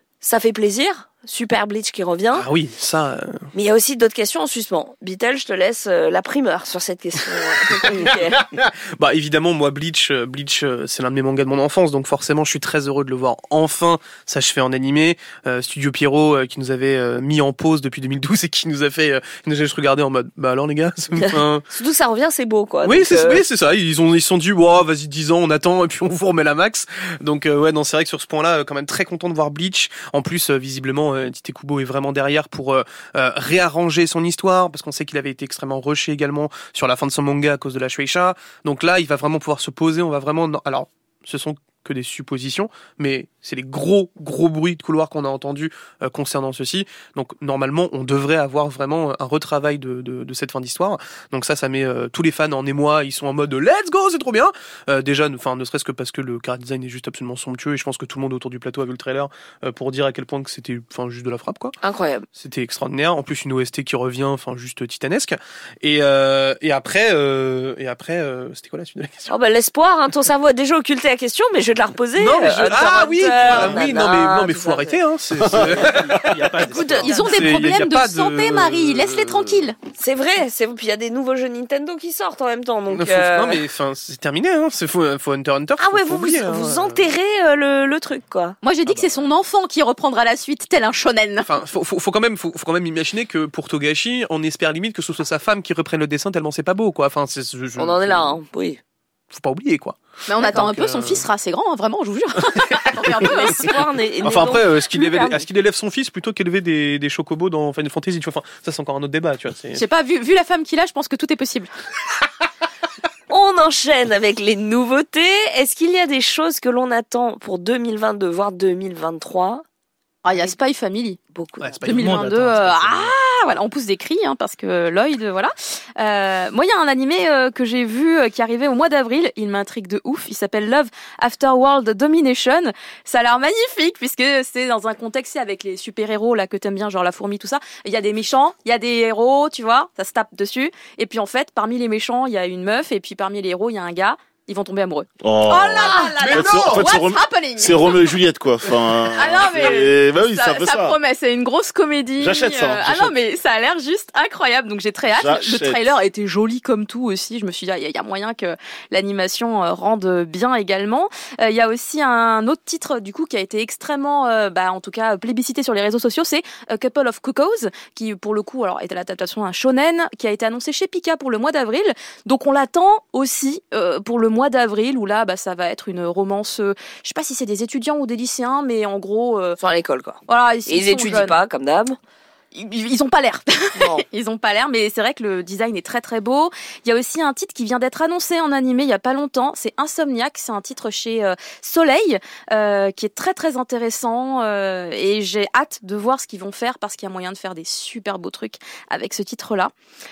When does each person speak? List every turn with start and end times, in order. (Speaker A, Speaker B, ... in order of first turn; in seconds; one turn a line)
Speaker A: 0.2-2.5
Speaker B: 2.3-3.5
Speaker A: 3.5-8.5
Speaker B: 7.8-21.6
Speaker A: 21.2-23.4
Speaker B: 22.8-61.8
Speaker A: 61.8-62.3
Speaker B: 62.4-69.3
Speaker A: 69.3-75.0
Speaker B: 72.2-76.5
Speaker C: 75.5-77.7
Speaker A: 76.7-77.1
Speaker D: 76.7-79.7
Speaker B: 77.1-79.5
Speaker A: 80.0-83.6
Speaker B: 82.9-87.0
Speaker A: 85.8-88.6
Speaker D: 88.6-91.5
Speaker C: 88.8-89.3
Speaker B: 91.4-98.4
Speaker A: 97.8-98.8
Speaker B: 99.3-101.2
Speaker D: 100.3-103.8
Speaker B: 102.5-103.2
Speaker A: 103.2-104.8
Speaker B: 104.2-109.8
Speaker D: 104.9-105.4
Speaker D: 109.7-111.7
Speaker A: 113.3-119.6
Speaker D: 120.2-121.2
Speaker A: 121.3-122.0
Speaker B: 121.6-121.8
Speaker C: 121.8-123.1
Speaker D: 121.8-148.0
Speaker E: 145.2-151.0
Speaker B: 145.9-146.9
Speaker D: 149.2-179.6
Speaker E: 152.2-153.1
Speaker E: 155.1-155.8
Speaker A: 179.6-182.0
Speaker D: 180.3-181.3
Speaker D: 182.5-199.7
Speaker A: 183.8-184.0